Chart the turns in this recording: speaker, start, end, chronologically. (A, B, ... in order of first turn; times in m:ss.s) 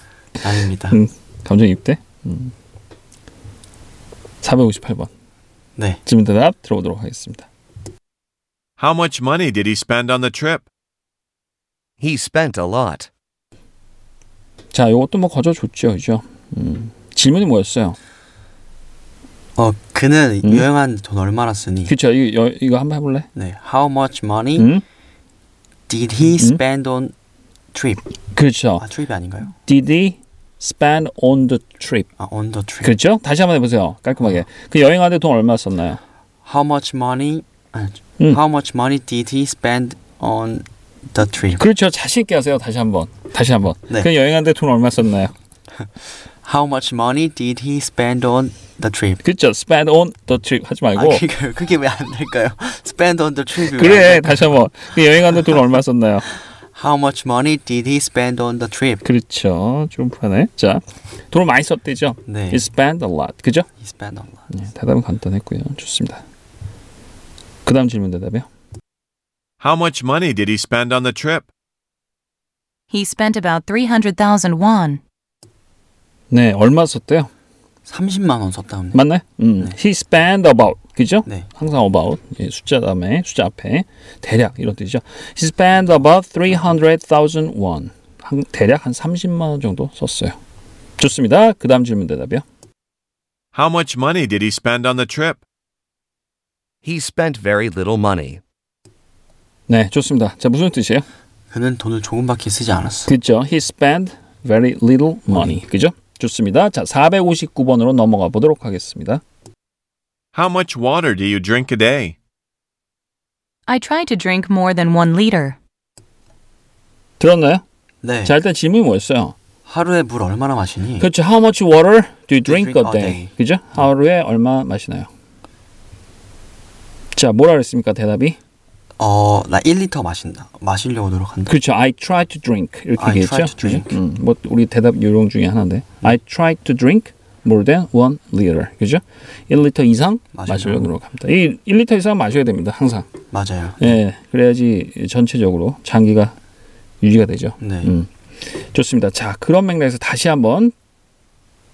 0:00.4-0:01.0 A
0:00.9-0:02.5 B
0:04.4-0:05.1 B
0:06.0-0:07.5 B
0:08.8-0:10.6 C
0:12.0-0:13.1 D
0:14.7-0:18.0 B
0:19.6-0:21.9 A
0:21.9-0:23.3 B
0:23.4-0:24.7 A
0:24.6-0:24.8 B
0:25.9-0:27.1 A
0:27.7-0:28.0 A
0:28.4-0:28.8 B
0:28.8-0:29.5 A
0:29.6-0:32.1 B
0:32.2-0:32.9 A
0:32.8-0:36.0 B
0:36.4-0:41.6 A
0:41.6-0:45.3 B
0:46.0-0:49.2 A
0:49.2-0:51.2 B
0:51.0-0:54.6 A
0:53.7-0:56.3 B
0:56.7-0:59.0 A
0:59.0-1:03.7 B
1:02.3-1:02.7 A
1:03.8-1:04.5 A
1:04.5-1:06.2 B
1:07.6-1:08.5 B
1:09.6-1:11.5 C
1:12.9-1:15.0 E
1:16.3-1:17.3 B
1:17.9-1:19.0 A
1:18.9-1:30.4 B
1:31.0-1:32.4 B
1:33.5-1:35.4 C
1:36.8-1:38.4 D
1:39.7-1:41.0 B
1:41.5-1:43.1 A
1:43.1-1:49.2 B
1:45.3-1:45.6 A
1:50.3-1:52.2 C
1:53.7-1:55.6 E
1:57.2-1:57.6 B
1:58.0-1:58.4 A
1:58.2-1:59.4 B
1:59.6-2:01.1 A
2:01.0-2:05.1 B
2:02.4-2:03.8 A
2:07.1-2:08.4 B
2:09.0-2:11.5 A
2:11.5-2:23.1 B
2:13.0-2:14.0 A
2:20.3-2:20.9 A
2:23.3-2:23.9 A
2:23.8-2:26.4 B
2:27.0-2:30.7 B
2:27.6-2:28.0 A